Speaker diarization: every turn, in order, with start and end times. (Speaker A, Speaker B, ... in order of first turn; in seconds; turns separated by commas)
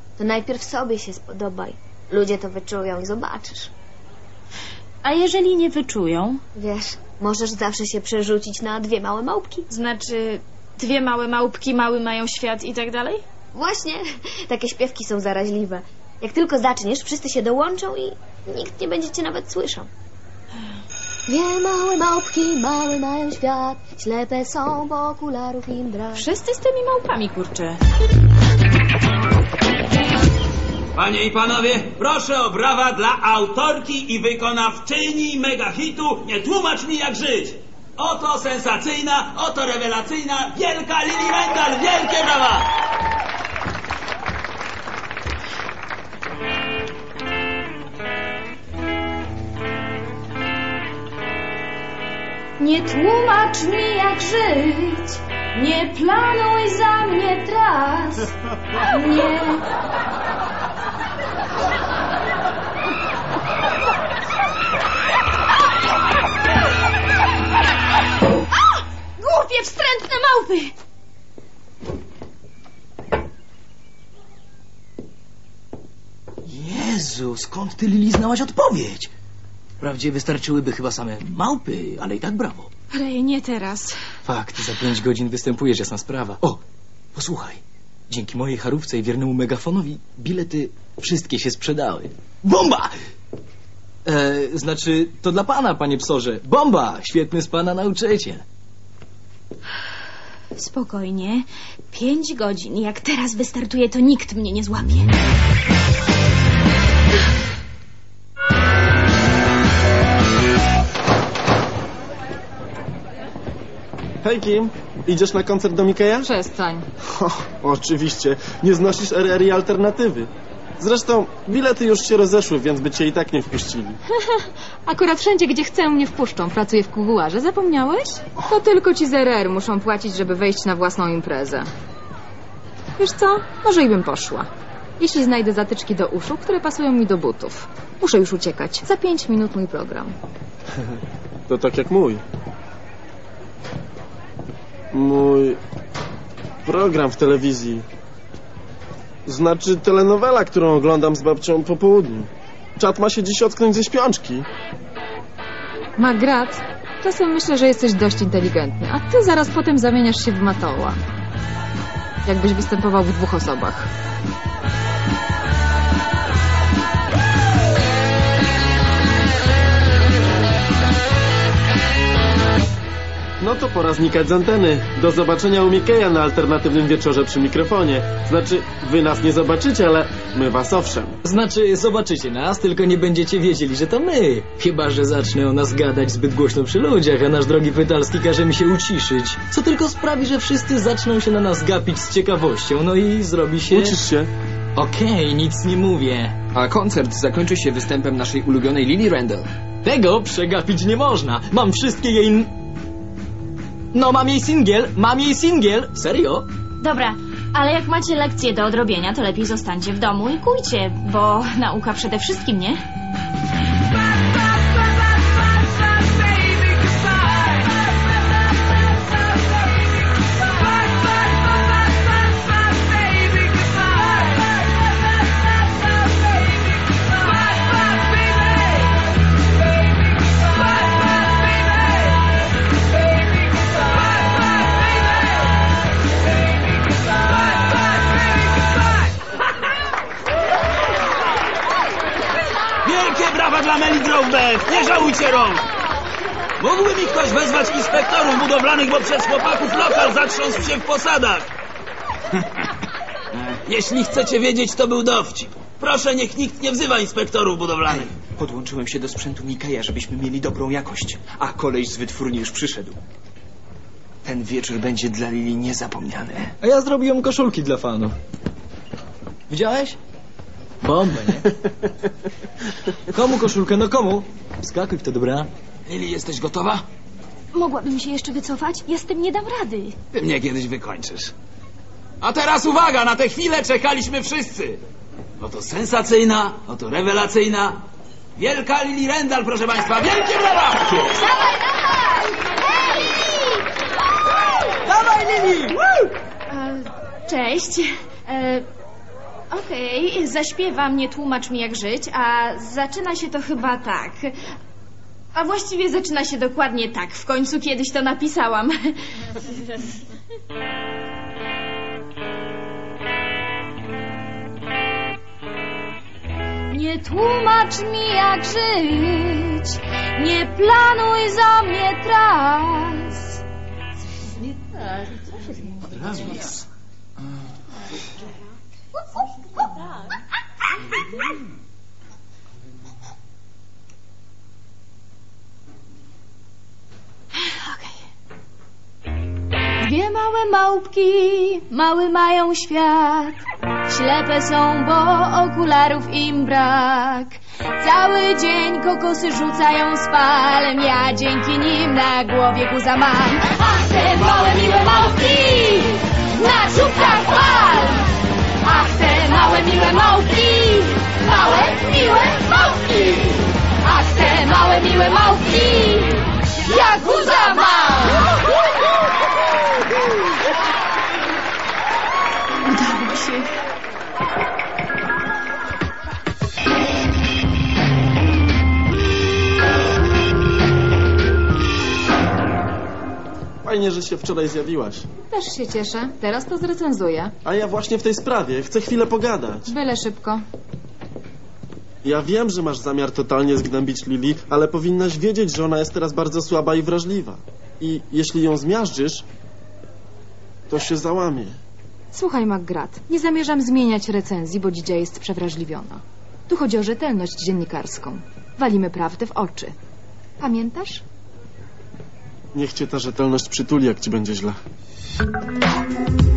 Speaker A: 0.2-3.7, Speaker B: 5.0-6.4, Speaker A: 6.5-9.7, Speaker B: 9.7-13.2, Speaker A: 13.5-19.9, Speaker A: 21.3-26.3, Speaker B: 26.1-27.8, Speaker C: 30.9-42.7, Speaker B: 52.6-59.7, Speaker B: 69.2-70.7, Speaker D: 76.4-79.1, Speaker D: 79.8-82.7, Speaker B: 82.9-84.0, Speaker D: 84.2-86.6, Speaker D: 87.1-92.9, Speaker D: 94.0-98.4, Speaker B: 100.5-105.1, Speaker E: 114.2-116.3, Speaker F: 116.2-116.8, Speaker E: 117.0-124.0, Speaker F: 124.1-131.7, Speaker F: 133.0-134.5, Speaker F: 135.0-140.1, Speaker E: 141.5-142.2, Speaker E: 144.9-145.6, Speaker E: 146.6-147.8, Speaker E: 149.2-154.5, Speaker F: 156.0-161.0, Speaker F: 162.2-163.9, Speaker E: 173.4-181.2, Speaker D: 181.2-194.0, Speaker E: 193.7-194.3, Speaker D: 194.8-196.4, Speaker G: 198.7-199.1, Speaker D: 199.8-202.5, Speaker D: 203.9-206.4, Speaker B: 206.8-212.8, Speaker C: 242.8-245.6, Speaker C: 246.6-251.5, Speaker C: 253.6-258.2, Speaker G: 258.4-263.0, Speaker G: 264.2-266.4, Speaker D: 266.6-268.1, Speaker D: 269.5-270.0, Speaker D: 270.8-271.6, Speaker D: 273.1-275.5, Speaker C: 275.9-276.8, Speaker B: 277.5-279.9, Speaker C: 280.1-281.3, Speaker C: 282.2-284.8, Speaker C: 285.4-287.8, Speaker C: 288.4-291.1, Speaker B: 291.1-293.6, Speaker D: 294.9-296.1, Speaker B: 296.5-298.6, Speaker B: 299.5-304.4, Speaker B: 305.3-309.0, Speaker B: 316.7-323.4, Speaker C: 326.1-326.4, Speaker B: 337.4-337.9, Speaker B: 339.8-358.1, Speaker B: 358.6-368.3, Speaker B: 372.6-373.5, Speaker E: 383.6-385.1, Speaker F: 385.3-387.3, Speaker E: 387.4-389.7, Speaker F: 389.7-390.4, Speaker E: 392.0-399.2, Speaker E: 400.7-401.6, Speaker F: 402.1-409.7, Speaker F: 410.4-411.0, Speaker E: 412.5-414.6